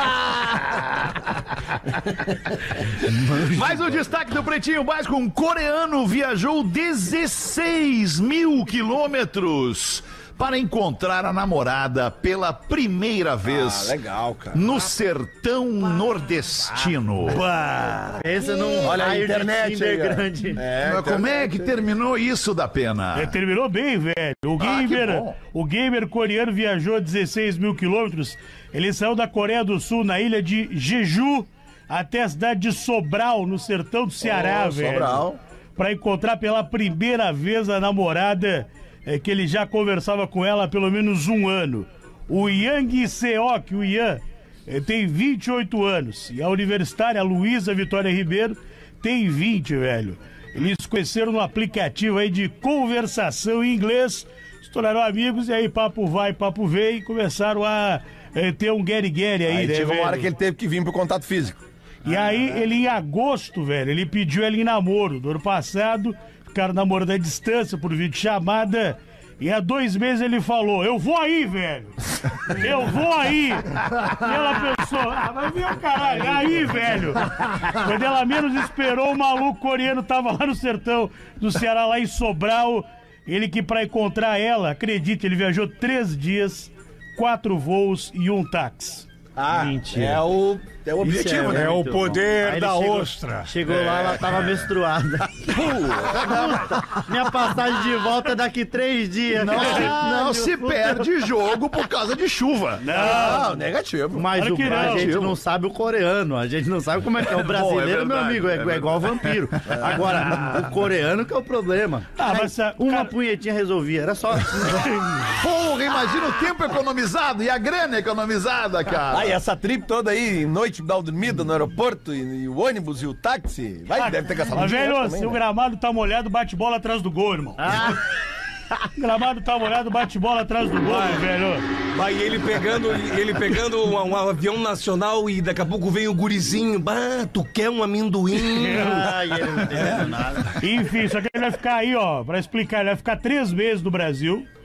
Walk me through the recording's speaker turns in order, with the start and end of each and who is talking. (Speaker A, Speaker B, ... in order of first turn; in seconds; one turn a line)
Speaker A: 3.1-3.9
Speaker B: 3.5-14.0
Speaker C: 13.5-14.6
Speaker B: 14.5-17.4
Speaker D: 17.4-18.2
Speaker A: 18.1-20.6
Speaker C: 18.8-21.7
Speaker B: 20.8-23.4
Speaker E: 23.1-35.2
Speaker B: 24.6-25.4
Speaker C: 34.2-35.4
Speaker E: 35.8-60.3
Speaker C: 59.5-61.6
Speaker E: 62.0-89.1
Speaker C: 89.4-91.9
Speaker A: 89.5-90.3
Speaker A: 91.0-95.5
Speaker D: 91.3-93.5
Speaker B: 95.5-96.8
Speaker A: 96.1-101.1
Speaker B: 99.3-103.0
Speaker E: 102.8-103.6
Speaker C: 102.9-104.3
Speaker A: 104.1-114.9
Speaker E: 104.3-105.1
Speaker B: 104.6-105.4
Speaker B: 107.2-110.6
Speaker E: 112.2-113.1
Speaker B: 115.3-119.4
Speaker C: 119.1-125.4
Speaker E: 123.9-128.0
Speaker A: 127.6-128.0
Speaker E: 129.0-131.6
Speaker D: 130.8-131.3
Speaker D: 131.9-139.2
Speaker A: 138.6-140.5
Speaker E: 138.7-139.0
Speaker E: 140.6-144.5